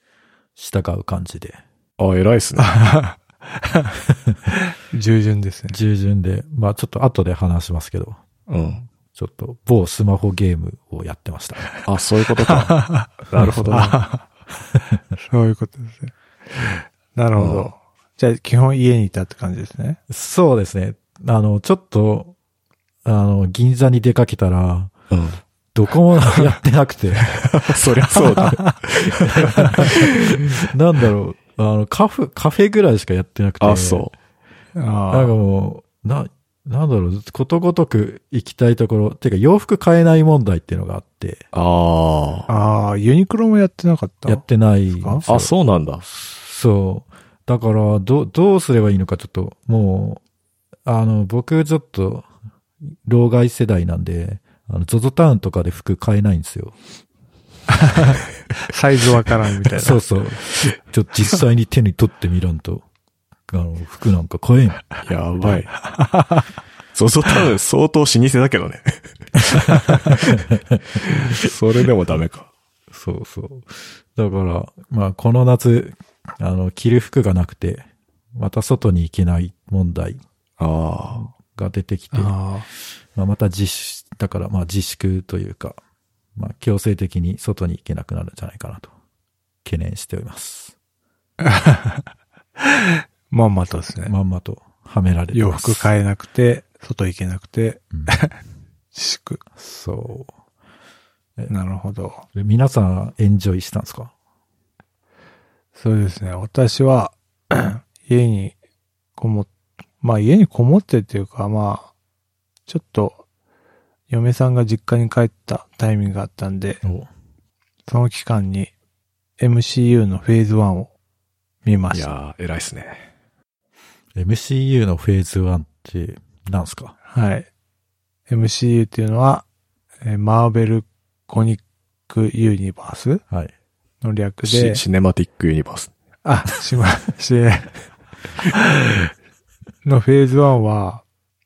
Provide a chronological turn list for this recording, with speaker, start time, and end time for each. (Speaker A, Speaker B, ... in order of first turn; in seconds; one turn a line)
Speaker A: 0.6-1.6
Speaker B: 2.0-2.8
Speaker C: 2.6-3.1
Speaker C: 4.9-5.8
Speaker A: 5.7-8.2
Speaker B: 8.5-8.8
Speaker A: 9.1-11.7
Speaker B: 11.8-14.0
Speaker C: 12.4-13.1
Speaker A: 13.4-13.9
Speaker C: 13.7-14.2
Speaker C: 15.2-16.1
Speaker C: 17.1-20.0
Speaker B: 17.4-17.7
Speaker A: 20.1-22.3
Speaker A: 23.0-24.9
Speaker B: 25.1-25.4
Speaker A: 25.7-27.4
Speaker B: 27.3-30.6
Speaker A: 29.2-34.1
Speaker B: 33.6-34.1
Speaker C: 34.8-35.3
Speaker A: 35.1-41.4
Speaker B: 41.5-42.5
Speaker C: 42.5-45.2
Speaker A: 44.3-45.5
Speaker B: 45.3-46.0
Speaker A: 46.0-50.2
Speaker A: 50.8-52.3
Speaker A: 53.0-56.8
Speaker C: 57.8-58.1
Speaker C: 58.7-60.0
Speaker A: 59.8-62.8
Speaker A: 63.5-64.9
Speaker B: 65.0-65.7
Speaker C: 65.8-66.4
Speaker B: 66.9-70.3
Speaker A: 70.3-71.0
Speaker B: 71.2-72.5
Speaker A: 72.9-80.2
Speaker B: 80.6-81.2
Speaker A: 81.2-82.3
Speaker C: 82.1-82.7
Speaker A: 83.1-85.8
Speaker A: 86.3-88.9
Speaker A: 89.6-90.7
Speaker C: 91.4-91.8
Speaker C: 93.3-94.1
Speaker A: 94.0-95.9
Speaker C: 95.3-98.3
Speaker C: 98.9-99.4
Speaker A: 99.5-100.3
Speaker C: 101.5-102.2
Speaker A: 102.3-104.1
Speaker C: 105.7-108.5
Speaker C: 109.2-109.5
Speaker C: 110.0-111.9
Speaker C: 112.7-113.2
Speaker C: 114.1-116.8
Speaker A: 116.8-117.1
Speaker C: 117.9-118.7
Speaker C: 119.4-120.9
Speaker C: 121.6-122.1
Speaker B: 121.9-123.0
Speaker A: 124.1-126.9
Speaker C: 127.1-127.5
Speaker C: 128.3-129.4
Speaker C: 130.0-133.2
Speaker C: 134.0-134.8
Speaker B: 134.4-135.9
Speaker C: 136.2-137.7
Speaker C: 139.8-141.0